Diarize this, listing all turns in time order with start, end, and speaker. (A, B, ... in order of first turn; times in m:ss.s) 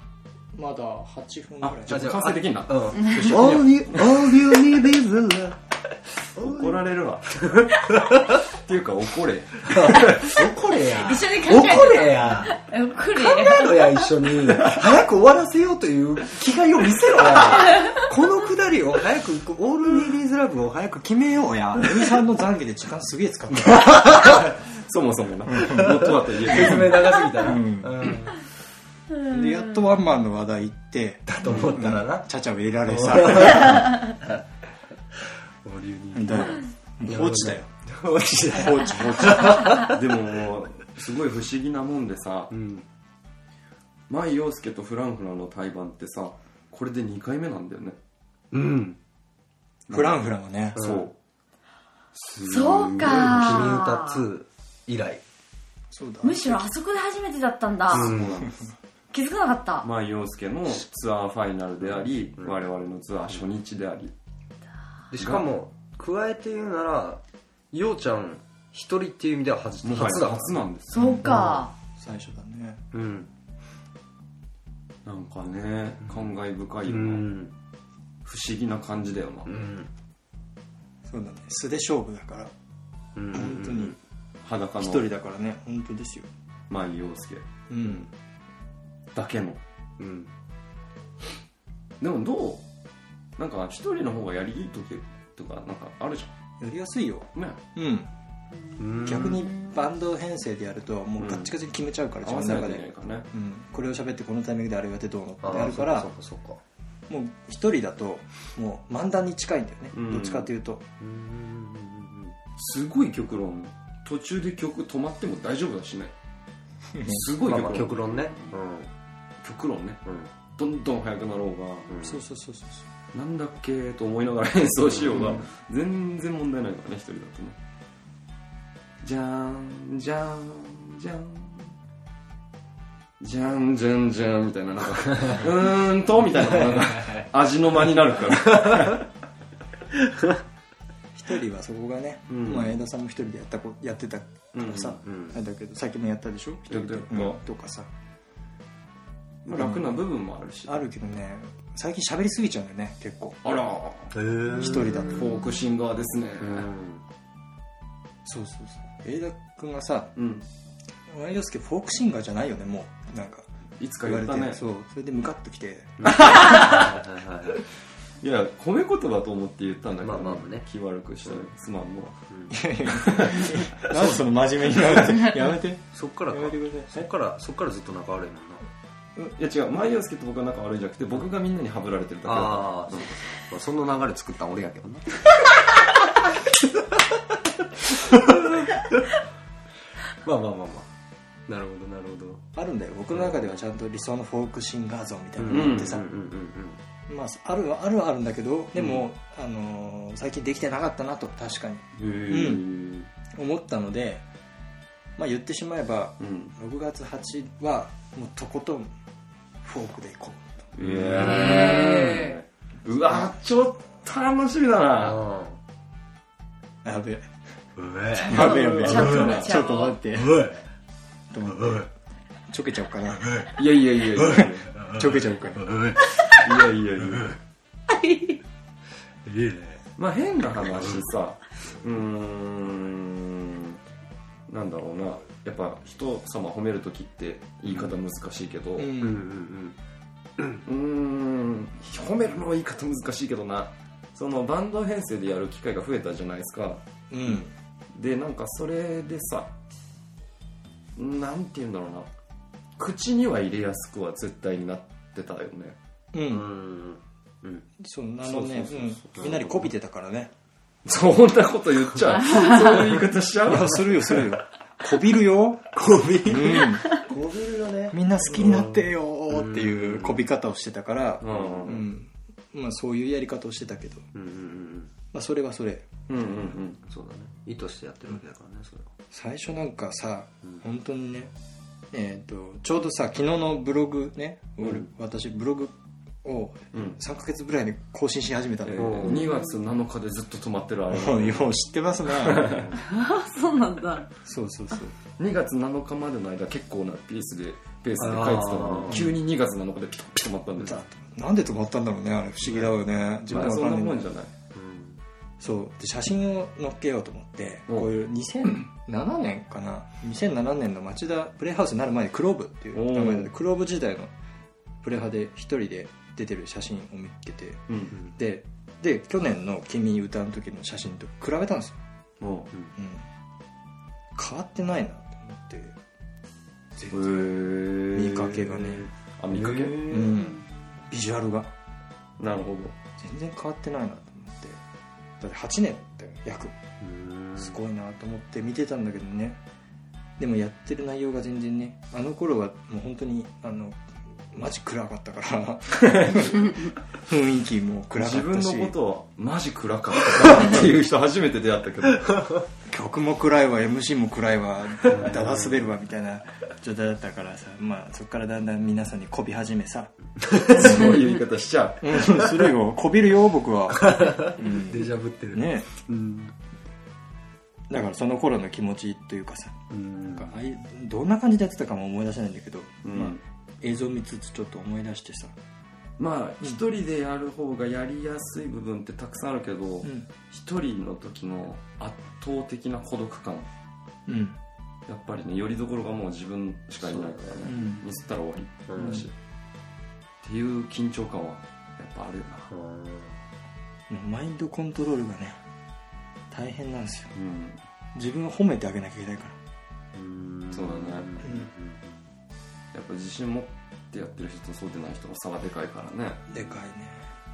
0:00.5-0:02.1 A
0:01.6-0:04.4 B
0:01.9-0:05.6 C
0:03.0-0:03.6 D
0:03.5-0:03.8 A
0:06.3-0:06.8 C
0:06.4-0:07.5 B
0:07.4-0:08.4 C
0:08.5-0:10.4 B
0:09.6-0:12.6 C
0:10.9-0:13.8 D
0:13.2-0:21.8 C
0:17.6-0:17.9 D
0:21.4-0:24.0 A
0:23.8-0:24.5 C
0:23.9-0:27.3 B
0:25.5-0:26.0 A
0:25.8-0:28.4 C
0:26.5-0:28.1 A
0:29.2-0:34.0 A
0:31.3-0:32.3 C
0:32.9-0:34.4 C
0:35.2-0:40.0 C
0:36.1-0:37.7 A
0:38.5-0:39.8 A
0:39.8-0:42.5 B
0:42.5-0:42.8 C
0:44.1-0:48.0 B
0:48.5-0:49.0 C
0:49.9-0:50.2 B
0:49.9-0:50.8 A
0:50.7-0:51.1 B
0:50.8-0:51.1 C
0:52.2-0:53.8 B
0:52.4-0:54.2 D
0:53.0-0:55.2 C
0:55.9-0:56.6 A
0:56.2-0:58.1 D
0:57.9-0:58.7 B
0:57.9-0:58.5 C
0:59.1-0:59.9 D
0:59.8-1:04.1 B
1:01.8-1:02.6 C
1:05.1-1:10.6 C
1:05.2-1:05.5 B
1:09.8-1:11.2 B
1:10.9-1:11.7 D
1:10.9-1:11.4 A
1:11.2-1:11.6 C
1:12.0-1:12.8 A
1:12.9-1:13.3 C
1:15.0-1:17.3 B
1:16.9-1:17.5 C
1:18.2-1:19.5 B
1:19.5-1:19.9 C
1:21.0-1:22.5 A
1:23.2-1:24.0 C
1:23.3-1:24.0 A
1:24.4-1:25.1 B
1:24.8-1:26.3 A
1:26.7-1:27.4 B
1:27.7-1:28.1 A
1:29.1-1:29.6 B
1:30.0-1:30.3 C
1:32.0-1:32.6 B
1:33.4-1:36.3 B
1:36.6-1:38.1 A
1:37.4-1:37.6 B
1:38.8-1:39.7 D
1:38.8-1:39.4 C
1:39.0-1:46.1 A
1:41.2-1:41.5 B
1:42.2-1:43.3 B
1:45.4-1:46.6 C
1:47.1-1:50.8 A
1:49.9-1:50.5 B
1:51.0-1:52.4 C
1:52.6-1:56.1 B
1:57.0-1:57.2 A
1:57.0-1:58.6 B
1:57.4-1:58.9 C
1:59.4-2:00.0 B
2:00.6-2:01.9 B
2:01.9-2:02.2 C
2:02.0-2:02.9 A
2:03.1-2:07.6 B
2:05.1-2:05.4 C
2:09.0-2:11.8 B
2:13.2-2:19.1 B
2:21.1-2:27.9 A
2:22.3-2:22.8 B
2:24.5-2:25.0 B
2:25.0-2:25.4 C
2:26.7-2:27.4 B
2:29.4-2:30.8 B
2:29.6-2:30.0 A
2:30.7-2:33.6 A
2:33.4-2:36.7 B
2:34.1-2:35.2 C
2:34.5-2:35.4 A
2:36.4-2:37.0 C
2:38.2-2:40.1 A
2:40.2-2:40.4 B
2:41.1-2:43.5 A
2:43.8-2:44.6 B
2:44.0-2:46.2 A
2:46.0-2:47.6 C
2:46.2-2:46.9 B
2:48.2-2:52.2 B
2:50.0-2:50.7 C
2:52.3-2:52.6 C
2:52.5-2:57.1 A
2:52.9-2:54.1 B
2:55.9-2:58.7 C
2:59.4-3:03.2 B
3:02.2-3:05.2 C
3:07.8-3:09.1 C
3:10.2-3:10.9 C
3:11.5-3:12.4 C
3:12.6-3:16.1 A
3:15.4-3:16.8 C
3:15.5-3:16.0 B
3:17.1-3:22.6 A
3:22.0-3:23.1 B
3:23.3-3:24.2 A
3:25.2-3:28.9 A
3:26.2-3:26.5 B
3:29.6-3:30.7 A
3:30.8-3:35.2 B
3:30.8-3:32.0 C
3:31.2-3:32.4 D
3:35.0-3:35.6 C
3:36.8-3:37.3 A
3:37.8-3:39.3 C
3:38.2-3:40.0 D
3:38.3-3:40.4 A
3:38.3-3:39.6 B
3:40.1-3:40.6 C
3:41.3-3:41.9 A
3:41.5-3:41.9 C
3:42.5-3:43.2 A
3:43.2-3:43.5 C
3:43.5-3:44.7 B
3:44.2-3:46.1 C
3:44.4-3:45.6 A
3:46.3-3:47.3 B
3:47.0-3:47.4 C
3:47.9-3:48.4 D
3:49.2-3:49.8 C
3:50.0-3:53.8 B
3:54.5-3:58.9 B
3:58.8-3:59.2 A
3:59.0-3:59.8 C
4:00.6-4:06.8 B
4:07.1-4:07.5 A
4:07.9-4:09.5 B
4:11.0-4:12.1 B
4:12.8-4:15.8 B
4:16.1-4:16.5 A
4:16.3-4:17.7 C
4:17.8-4:20.3 A
4:18.2-4:19.7 B
4:20.8-4:24.3 B
4:23.4-4:27.0 A
4:25.7-4:28.6 C
4:27.9-4:34.0 A
4:29.3-4:30.2 C
4:31.2-4:31.9 B
4:34.1-4:34.9 C
4:35.1-4:35.9 A
4:36.1-4:36.8 B
4:36.8-4:38.9 C
4:39.1-4:41.3 A
4:41.9-4:49.1 A
4:46.7-4:47.0 B
4:48.6-4:51.5 B
4:48.8-4:49.3 C
4:49.1-4:49.6 D
4:50.9-4:52.7 A
4:52.1-4:52.8 B
4:52.8-4:54.1 D
4:54.2-4:54.9 A
4:55.2-5:00.8 B
4:58.0-4:59.1 C
5:00.6-5:04.1 A
5:03.3-5:04.3 B
5:04.5-5:05.0 C
5:05.4-5:14.1 A
5:12.7-5:13.3 B
5:14.8-5:21.8 A
5:22.2-5:22.5 B
5:22.8-5:23.1 A
5:24.2-5:25.8 A
5:26.8-5:28.9 A
5:26.9-5:30.1 B
5:29.3-5:30.4 C
5:29.9-5:31.5 A
5:32.2-5:32.8 B
5:33.0-5:34.6 A
5:35.2-5:36.6 A
5:36.8-5:37.6 C
5:37.4-5:39.4 A
5:40.2-5:48.7 A
5:45.8-5:46.6 B
5:48.0-5:52.3 B
5:52.7-5:59.9 A
5:54.9-5:55.5 C
6:00.3-6:00.6 C
6:00.5-6:02.4 B
6:00.5-6:01.0 A
6:01.8-6:05.7 A
6:03.7-6:06.3 C
6:07.7-6:09.6 A
6:09.7-6:10.3 C
6:10.1-6:15.3 A
6:12.8-6:13.2 B
6:16.0-6:23.5 B
6:24.1-6:24.4 A
6:24.9-6:29.1 B
6:26.8-6:27.5 C
6:27.5-6:27.8 A
6:28.7-6:29.1 C
6:30.2-6:32.5 B
6:32.5-6:33.2 C
6:33.9-6:35.4 A
6:36.3-6:37.1 A
6:37.2-6:37.6 B
6:38.0-6:39.4 A
6:39.9-6:42.0 C
6:40.5-6:41.1 B
6:41.2-6:41.5 A
6:42.7-6:46.2 B
6:46.3-6:47.1 A